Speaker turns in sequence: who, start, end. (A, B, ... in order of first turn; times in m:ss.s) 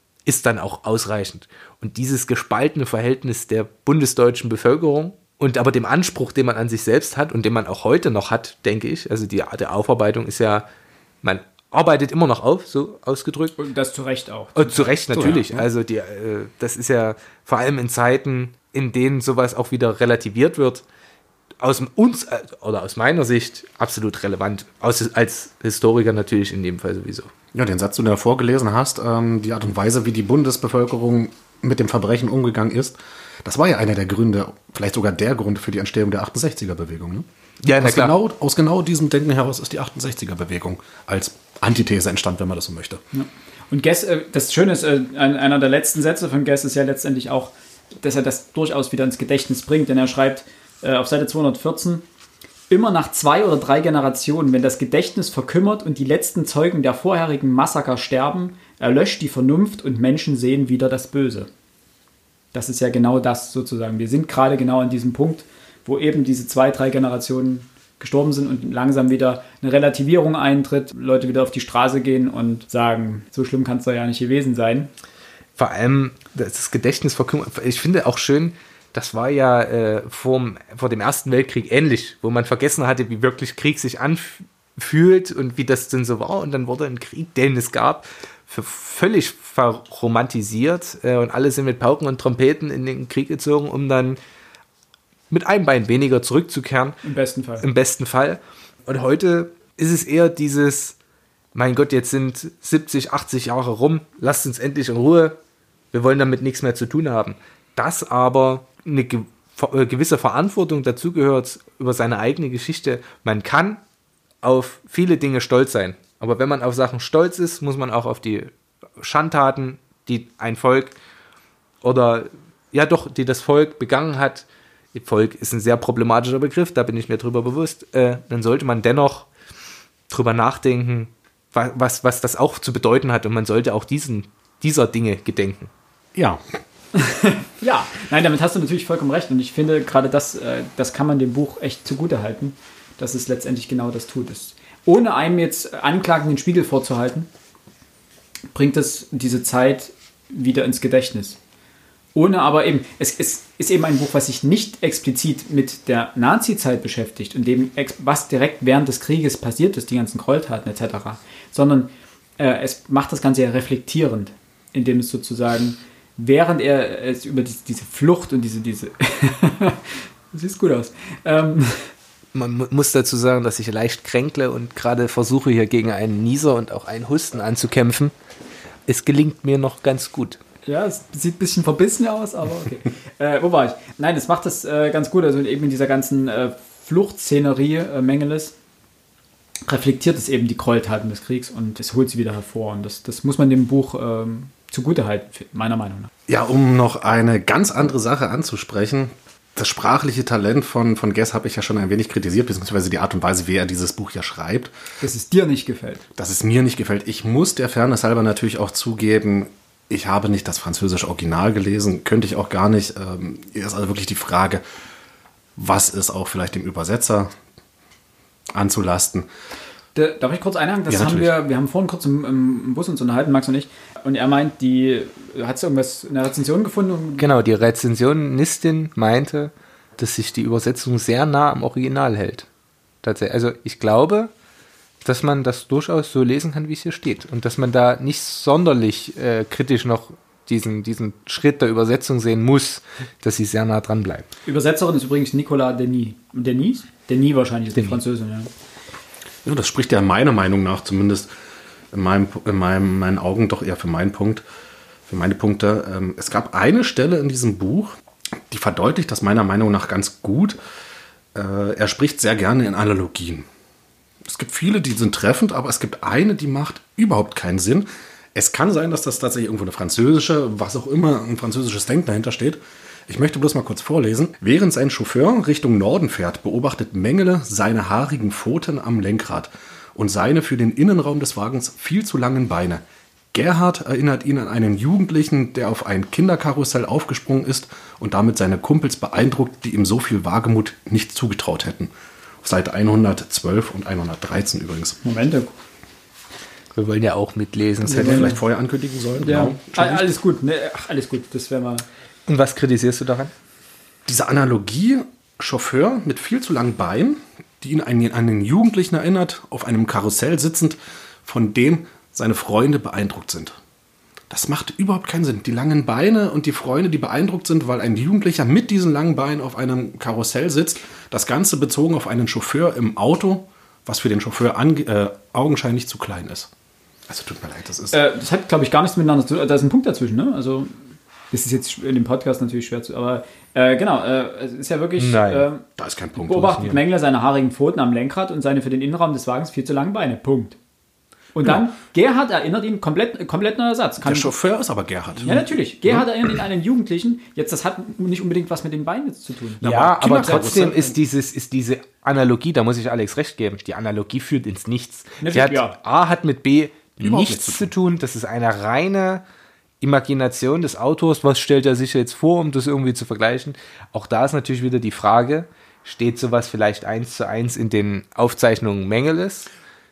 0:00.2-0:10.6 A
0:11.2-0:13.6 A
0:13.6-0:15.0 B
0:14.6-0:20.8 A
0:15.1-0:15.7 C
0:21.6-0:27.3 A
0:27.5-0:37.2 C
0:37.6-0:38.1 A
0:37.8-0:43.0 C
0:43.1-0:52.0 B
0:52.7-1:01.5 B
1:02.5-1:14.9 B
1:15.6-1:34.2 A
1:35.3-1:37.0 A
1:37.0-1:37.6 B
1:37.6-1:40.9 A
1:41.5-1:45.4 A
1:45.9-1:53.8 A
1:54.4-2:00.9 A
2:01.8-2:09.3 A
2:10.1-2:15.7 A
2:16.1-2:16.4 C
2:16.9-2:27.3 B
2:28.5-2:31.4 B
2:32.1-2:51.9 B
2:52.3-2:58.1 A
2:58.9-3:00.4 A
3:00.7-3:08.5 B
3:09.7-3:16.1 B
3:16.3-3:24.7 C
3:25.0-3:26.0 B
3:26.2-3:34.6 C
3:35.6-3:37.3 C
3:38.5-3:39.3 C
3:39.9-3:47.2 B
3:40.9-3:41.3 C
3:47.2-3:52.5 A
3:53.0-3:54.3 A
3:55.0-4:04.3 A
4:04.4-4:08.5 B
4:09.4-4:11.3 C
4:11.9-4:14.4 C
4:15.1-4:17.9 C
4:18.5-4:20.6 C
4:21.3-4:23.4 C
4:24.2-4:42.8 C
4:43.3-4:55.0 C
4:55.0-4:55.5 B
4:56.7-4:58.4 A
4:57.8-4:58.3 B
4:57.8-5:00.1 C
4:59.2-5:01.8 B
5:02.3-5:03.3 A
5:04.0-5:13.6 C
5:14.3-5:26.5 C
5:27.1-5:28.0 C
5:27.9-5:30.7 B
5:31.3-5:35.6 B
5:35.0-5:35.4 A
5:35.8-5:36.7 C
5:36.2-5:40.6 B
5:41.4-5:44.3 B
5:44.0-5:46.0 C
5:45.2-5:50.6 B
5:49.6-5:51.0 C
5:49.6-5:59.2 A
5:55.2-5:55.8 B
5:57.0-5:57.7 C
5:59.8-6:09.5 A